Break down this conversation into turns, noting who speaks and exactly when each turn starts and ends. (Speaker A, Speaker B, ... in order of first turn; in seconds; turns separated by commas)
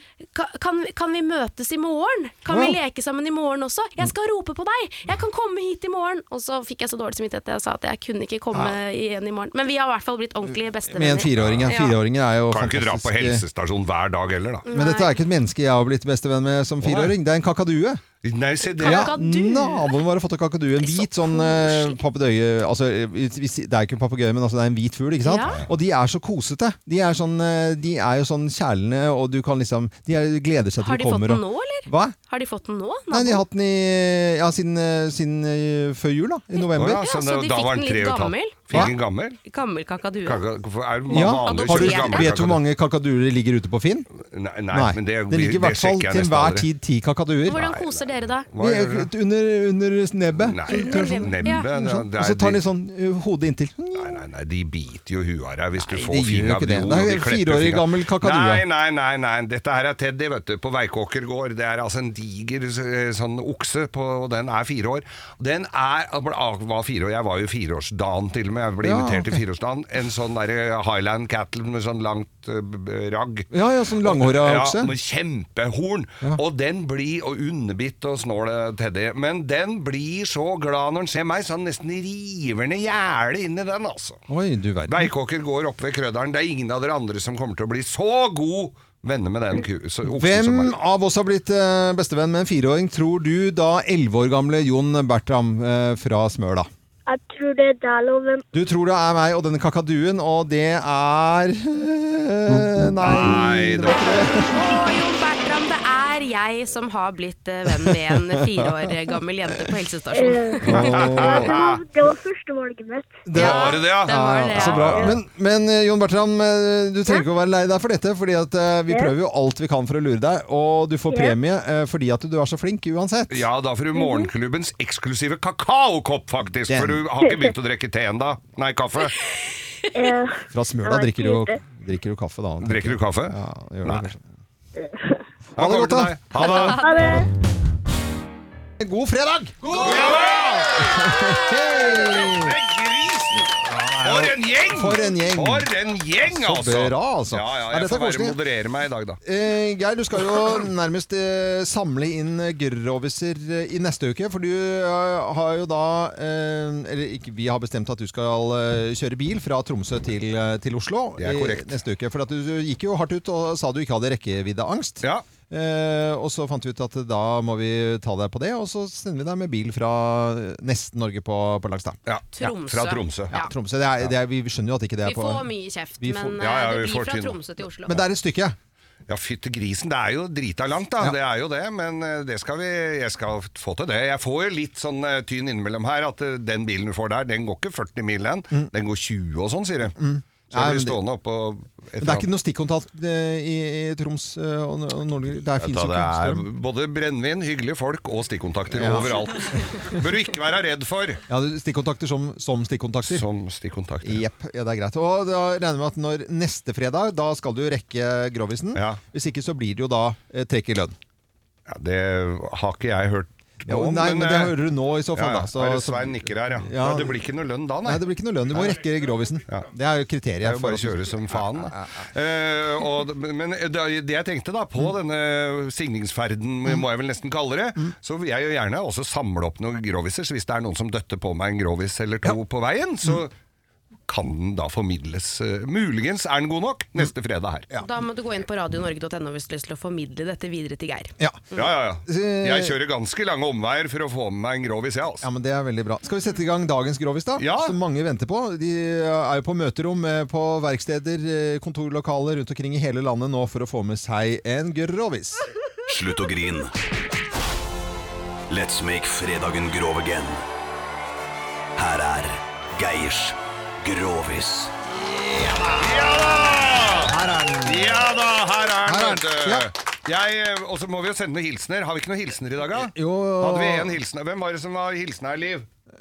Speaker A: 0.3-12.0, Speaker B: 2.5-2.8, Speaker B: 10.5-13.4, Speaker C: 11.4-11.7, Speaker C: 12.5-14.7, Speaker A: 14.7-15.2, Speaker B: 14.7-18.0, Speaker C: 16.8-17.1, Speaker C: 18.2-19.1, Speaker A: 18.8-19.9, Speaker B: 18.8-32.2, Speaker A: 20.8-22.0, Speaker A: 25.2-25.6, Speaker C: 25.5-25.7, Speaker A: 30.8-33.4, Speaker B: 33.1-37.0, Speaker A: 36.6-38.9, Speaker C: 36.8-39.4, Speaker A: 39.5-40.4, Speaker C: 40.2-42.6, Speaker B: 41.1-44.1, Speaker A: 41.1-42.3, Speaker C: 44.3-46.7, Speaker B: 44.7-47.6, Speaker A: 47.5-48.5, Speaker C: 47.5-49.1, Speaker B: 48.6-54.2, Speaker C: 50.4-52.6, Speaker A: 50.7-51.7, Speaker C: 54.0-73.5, Speaker B: 55.8-58.6, Speaker B: 68.8-69.4, Speaker B: 73.5-74.9, Speaker C: 74.0-84.2, Speaker B: 84.3-85.1, Speaker C: 84.9-90.8, Speaker B: 90.1-96.7, Speaker D: 97.1-98.4, Speaker B: 98.5-104.5, Speaker C: 103.0-104.4, Speaker A: 104.4-110.9, Speaker B: 107.8-108.7, Speaker D: 110.1-110.6, Speaker B: 110.6-111.7, Speaker C: 110.7-111.8, Speaker D: 111.3-113.2, Speaker B: 113.2-123.5, Speaker A: 113.4-114.9, Speaker C: 113.4-115.2, Speaker C: 123.3-129.2, Speaker B: 126.6-127.1, Speaker D: 130.0-130.3, Speaker B: 130.5-134.2, Speaker D: 130.8-131.6, Speaker C: 132.6-134.1, Speaker B: 135.6-136.8, Speaker C: 135.6-136.9, Speaker A: 136.3-137.1, Speaker D: 136.8-137.2, Speaker B: 138.8-142.6, Speaker C: 139.8-149.2, Speaker B: 143.4-145.7, Speaker B: 146.2-148.4, Speaker B: 149.2-172.0, Speaker C: 161.2-161.8, Speaker C: 172.1-173.3, Speaker A: 172.4-173.5, Speaker B: 173.3-175.5, Speaker A: 175.1-178.0, Speaker B: 176.0-176.4, Speaker C: 176.4-177.4, Speaker B: 177.9-178.6, Speaker C: 179.1-190.0, Speaker B: 190.0-191.0, Speaker C: 190.5-192.3, Speaker B: 192.0-196.4, Speaker C: 195.6-201.2, Speaker B: 198.7-199.1, Speaker B: 201.3-203.2, Speaker C: 203.1-204.2, Speaker B: 204.0-211.0, Speaker C: 208.8-209.0, Speaker C: 211.7-214.6, Speaker B: 213.7-217.2, Speaker C: 215.1-218.0, Speaker B: 217.8-222.0, Speaker C: 220.4-233.3, Speaker C: 234.1-237.7, Speaker A: 237.8-241.1, Speaker B: 241.2-241.6, Speaker C: 241.6-245.2, Speaker B: 242.1-242.8, Speaker B: 245.2-255.4, Speaker C: 247.4-247.8, Speaker E: 255.9-256.7, Speaker E: 258.5-260.4, Speaker E: 261.8-264.7, Speaker C: 265.8-275.7, Speaker B: 267.0-268.1, Speaker B: 268.9-269.7, Speaker B: 272.8-274.0